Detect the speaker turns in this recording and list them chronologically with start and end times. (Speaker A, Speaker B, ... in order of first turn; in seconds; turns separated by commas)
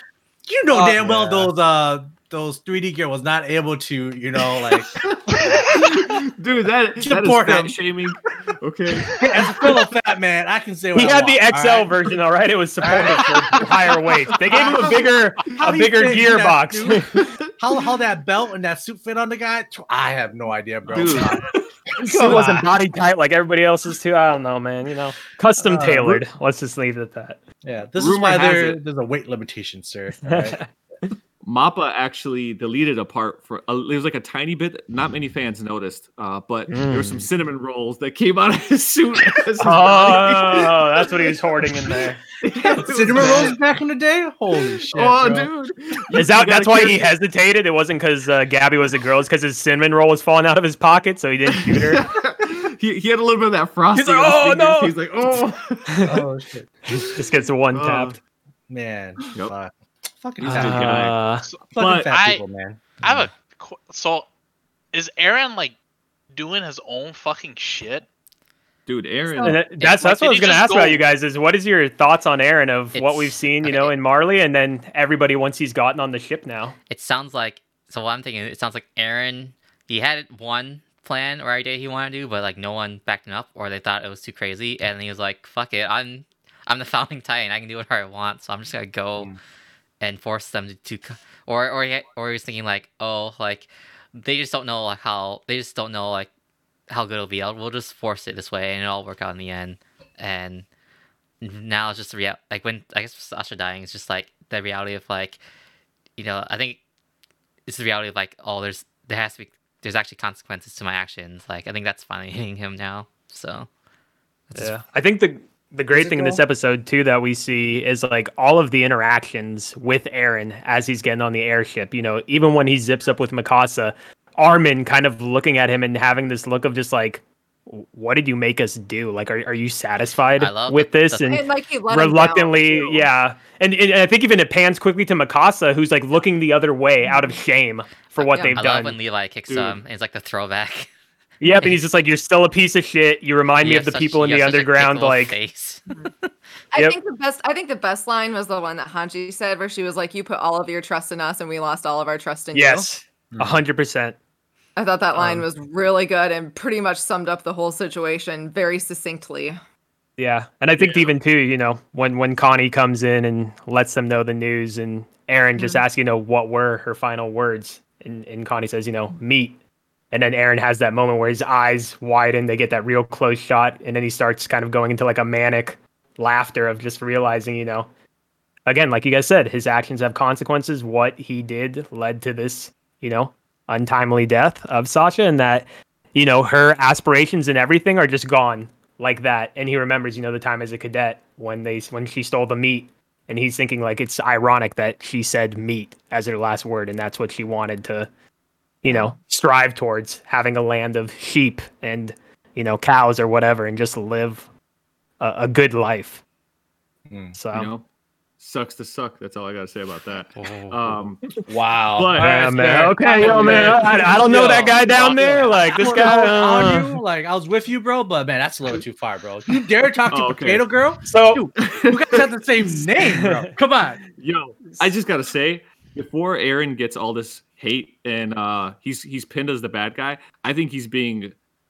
Speaker A: 0.5-5.8, Speaker B: 0.8-1.5, Speaker B: 5.0-9.1, Speaker A: 7.0-7.8, Speaker A: 9.2-12.1, Speaker C: 10.9-17.1, Speaker A: 12.8-13.7, Speaker A: 14.5-14.8, Speaker B: 14.6-15.0, Speaker A: 15.5-22.7, Speaker B: 17.2-17.5, Speaker B: 20.9-21.4, Speaker C: 21.0-21.3, Speaker C: 22.0-27.4, Speaker B: 22.1-22.4, Speaker A: 25.6-26.2, Speaker A: 27.6-30.6, Speaker B: 28.0-28.8, Speaker C: 30.3-30.7, Speaker B: 31.4-41.1, Speaker C: 36.7-37.3, Speaker C: 39.6-42.2, Speaker B: 42.4-43.6, Speaker A: 42.6-45.5, Speaker C: 43.2-43.5, Speaker B: 44.9-47.1, Speaker C: 46.1-52.0, Speaker B: 51.5-56.1, Speaker C: 53.9-55.0, Speaker C: 55.9-56.2, Speaker A: 56.0-56.8, Speaker C: 57.0-58.2, Speaker B: 57.7-58.2, Speaker A: 58.7-61.2, Speaker B: 60.4-61.2, Speaker C: 60.4-61.5, Speaker D: 61.5-62.4, Speaker A: 61.7-63.3, Speaker B: 61.8-62.1, Speaker D: 63.0-64.3, Speaker D: 64.9-65.8, Speaker D: 66.3-68.1, Speaker B: 68.9-69.6, Speaker C: 69.4-76.8, Speaker E: 69.8-70.2, Speaker D: 70.0-71.0, Speaker E: 72.9-74.0, Speaker E: 76.9-89.4, Speaker E: 90.0-96.3, Speaker E: 96.9-100.7, Speaker E: 101.4-105.4, Speaker E: 106.2-106.8, Speaker E: 107.7-113.7, Speaker E: 114.5-114.8, Speaker C: 114.5-138.9, Speaker A: 115.9-116.4, Speaker E: 130.4-131.4, Speaker F: 131.3-133.1, Speaker F: 137.1-137.4, Speaker E: 138.2-140.9, Speaker B: 139.5-139.8, Speaker C: 141.4-145.4, Speaker E: 141.6-141.8, Speaker E: 143.6-145.9, Speaker F: 146.7-152.9, Speaker C: 152.5-154.2, Speaker A: 153.3-153.6, Speaker F: 154.8-159.6, Speaker C: 155.2-155.5, Speaker C: 160.2-169.6, Speaker B: 160.8-161.1, Speaker F: 165.6-165.8, Speaker C: 170.1-177.9, Speaker C: 178.7-198.1, Speaker C: 198.8-204.5, Speaker C: 205.2-206.2, Speaker A: 207.1-207.4, Speaker C: 207.3-207.7, Speaker B: 207.5-207.9, Speaker B: 208.4-211.2, Speaker E: 210.3-211.0, Speaker A: 211.5-224.0, Speaker B: 212.0-215.5, Speaker C: 212.1-217.0, Speaker B: 220.1-220.7, Speaker C: 221.1-221.5, Speaker B: 221.6-222.2, Speaker C: 223.0-223.6, Speaker B: 224.2-231.3